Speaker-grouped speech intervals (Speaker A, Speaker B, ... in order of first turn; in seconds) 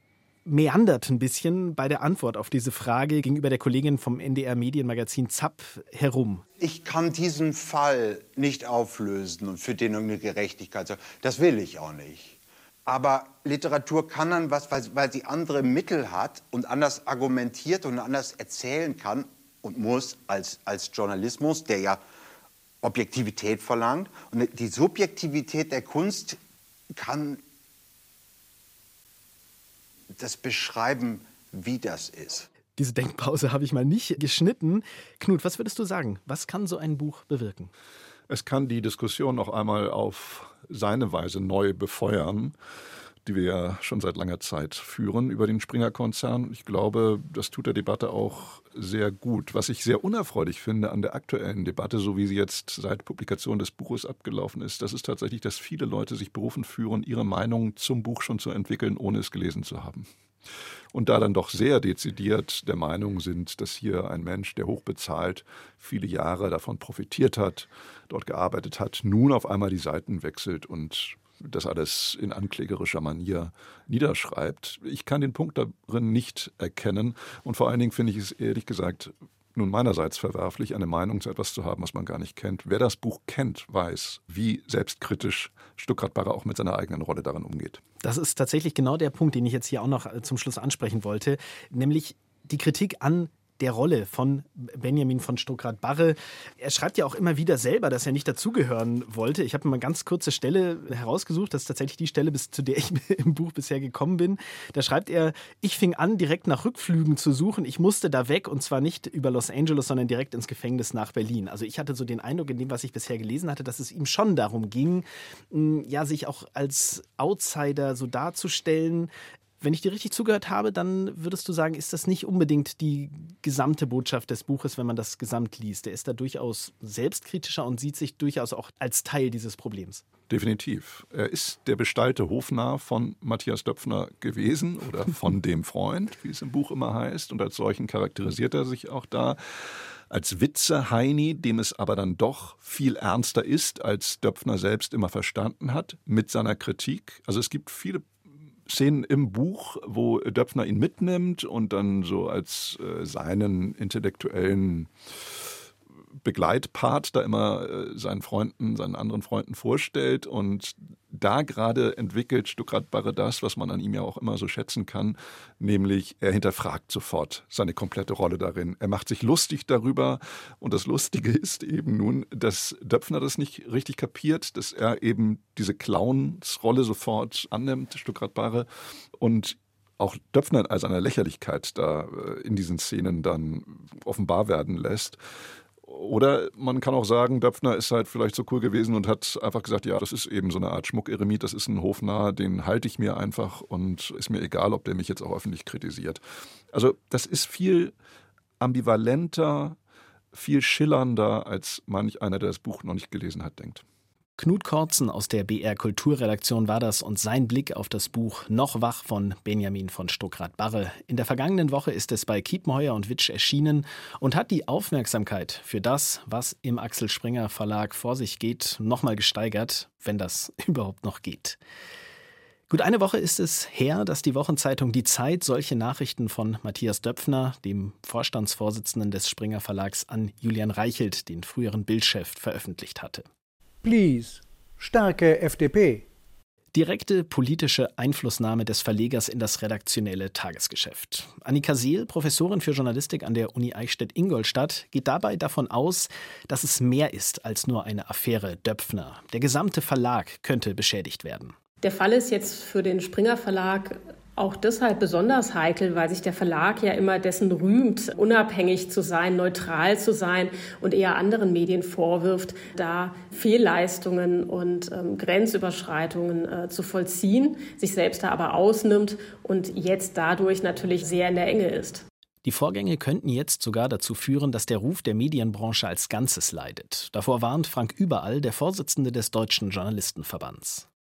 Speaker A: 0.4-6.4, 32.8-37.7, 88.0-119.1, 119.6-130.0, 204.4-221.6, 222.7-233.2, 236.7-251.6, 272.4-280.9
Speaker B: 6.6-22.0, 22.8-26.4, 26.9-27.4, 30.2-32.5
Speaker C: 38.3-42.5, 43.2-60.1, 60.9-87.8, 130.3-139.4, 140.1-148.1, 148.7-155.5, 156.2-185.2, 185.8-196.2, 196.7-197.9, 198.6-199.8, 200.3-203.8
Speaker D: 233.8-236.1
Speaker E: 251.8-272.0